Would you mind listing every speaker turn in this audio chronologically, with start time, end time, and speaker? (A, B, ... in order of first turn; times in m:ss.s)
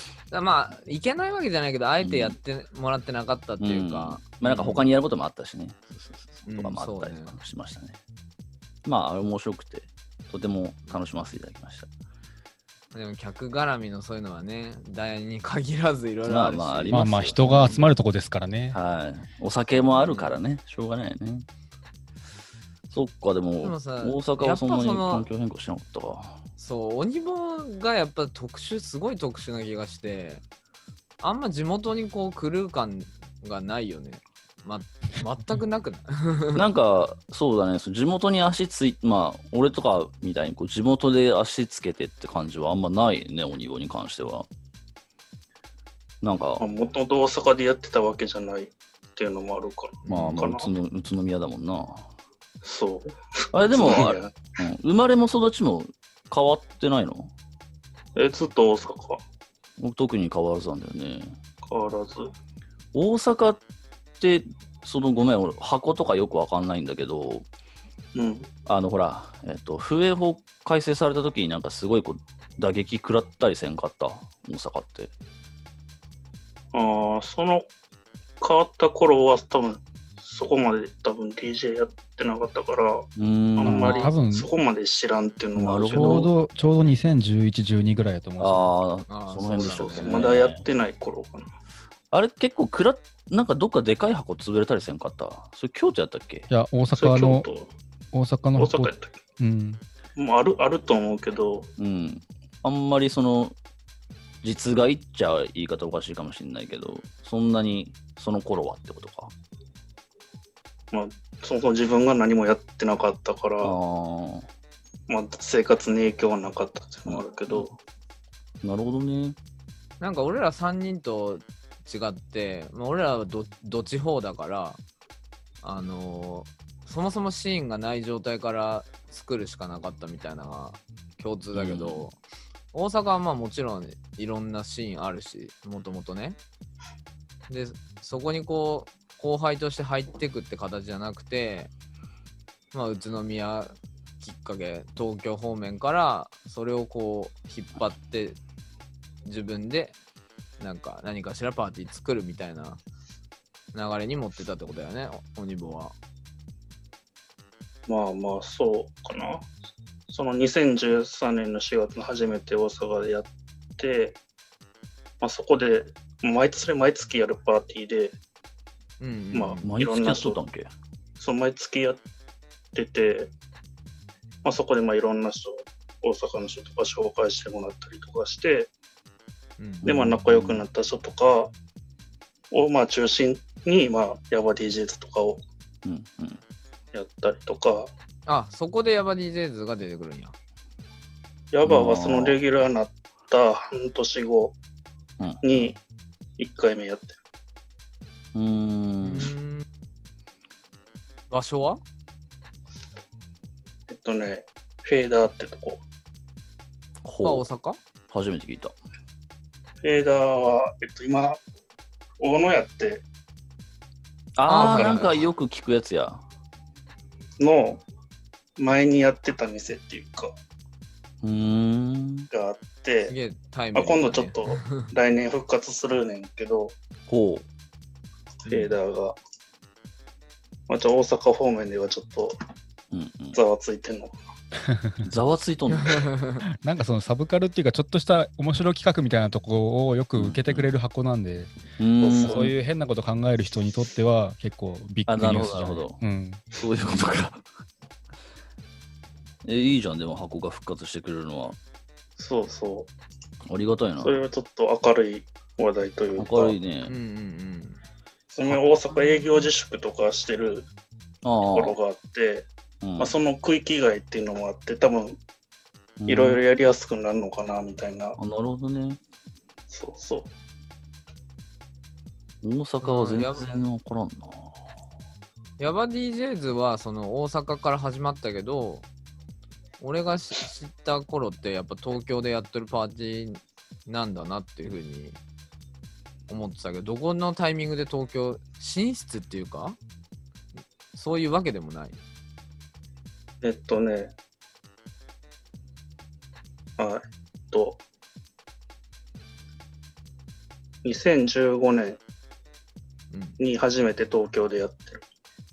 0:00.3-0:04.8 A
0:02.0-0:02.4 B
0:03.6-0:08.0 B
0:06.5-0:07.4 A
0:08.8-0:11.9 B
0:12.9-0:17.9 A
0:16.2-0:17.8 B
0:16.9-0:18.8 C
0:18.7-0:21.4 B
0:20.0-0:20.4 A
0:22.9-0:26.4 B
0:23.6-0:25.3 A
0:26.6-0:30.4 A
0:31.2-0:36.6 A
0:36.5-0:44.5 B
0:46.2-0:46.6 B
0:46.6-0:50.7 D
0:50.0-0:50.5 A
0:50.1-0:52.1 B
0:52.6-0:54.3 D
0:53.5-0:57.3 B
0:58.2-0:59.2 D
0:59.8-1:01.4 B
1:01.6-1:02.3 D
1:02.9-1:03.6 B
1:04.2-1:07.4 B
1:08.1-1:08.5 D
1:08.7-1:15.1 B
1:16.7-1:17.6 D
1:18.4-1:26.3 D
1:23.2-1:24.1 B
1:23.6-1:24.5 C
1:25.5-1:26.3 B
1:25.9-1:28.7 C
1:28.4-1:30.6 B
1:29.1-1:30.3 A
1:30.0-1:31.5 D
1:32.1-1:36.5 B
1:36.5-1:37.4 C
1:36.9-1:37.7 D
1:38.1-1:39.8 C
1:38.6-1:39.2 D
1:40.2-1:41.7 D
1:41.8-1:43.6 B
1:44.4-1:49.3 B
1:50.9-1:53.8 D
1:53.6-1:54.5 B
1:55.1-1:57.7 D
1:57.0-1:57.8 B
1:58.6-1:59.4 B
2:00.0-2:04.8 A
2:05.6-2:12.2 A
2:11.5-2:12.1 B
2:12.7-2:16.4 A
2:17.5-2:21.7 A
2:22.7-2:28.4 A
2:29.2-2:29.9 A
2:30.6-2:32.8 A
2:33.7-2:35.9 A
2:37.9-2:39.5 D
2:40.1-2:44.2 D
2:45.2-2:48.2 D
2:49.0-2:49.7 A
2:49.3-2:50.4 D
2:49.6-2:50.7 B
2:51.2-2:52.0 D
2:52.7-2:53.3 D
2:54.4-2:58.7 D
2:59.6-2:59.8 A
2:59.8-3:00.6 B
2:59.8-3:01.5 D
3:02.5-3:05.4 D
3:05.8-3:06.4 B
3:06.9-3:07.9 D
3:08.2-3:10.3 A
3:11.5-3:14.6 D
3:11.6-3:12.4 B
3:15.2-3:15.6 B
3:15.4-3:15.8 D
3:16.4-3:17.2 D
3:18.3-3:19.3 B
3:19.0-3:19.7 A
3:21.3-3:21.8 A
3:23.9-3:25.8 D
3:27.0-3:27.4 B
3:27.2-3:27.8 A
3:28.1-3:28.8 B
3:29.8-3:31.4 D
3:32.2-3:33.0 D
3:34.4-3:36.2 B
3:34.5-3:35.3 A
3:34.6-3:35.1 D
3:37.4-3:37.8 D
3:38.6-3:40.3 D
3:41.2-3:42.3 B
3:42.3-3:43.1 D
3:43.0-3:44.9 A
3:43.7-3:46.7 D
3:47.1-3:47.4 B
3:48.4-3:49.2 D
3:48.5-3:48.7 B
3:50.7-3:52.3 D
3:52.9-3:53.4 B
3:53.3-3:54.1 D
3:54.7-3:55.0 C
3:55.0-3:56.1 B
3:55.7-3:56.4 A
3:56.5-4:01.5 C
4:00.1-4:00.7 B
4:01.8-4:02.5 B
4:02.0-4:02.5 D
4:02.2-4:06.4 C
4:05.1-4:06.0 B
4:06.5-4:07.4 B
4:09.4-4:11.6 B
4:12.2-4:12.9 D
4:13.5-4:14.2 B
4:14.0-4:16.6 D
4:16.2-4:16.9 B
4:16.9-4:17.8 A
4:18.3-4:20.7 D
4:21.2-4:21.8 B
4:21.5-4:22.5 D
4:22.8-4:23.1 B
4:23.0-4:25.2 D
4:26.0-4:26.4 B
4:26.1-4:28.2 D
4:28.2-4:29.0 B
4:29.7-4:30.3 D
4:32.4-4:34.5 B
4:32.8-4:33.5 A
4:35.6-4:38.8 A
4:39.8-4:45.2 A
4:46.3-4:49.8 A
4:50.9-4:52.0 A
4:53.4-4:54.1 D
4:56.8-4:57.8 D
5:00.8-5:02.0 D
5:03.1-5:03.4 A
5:03.4-5:05.0 D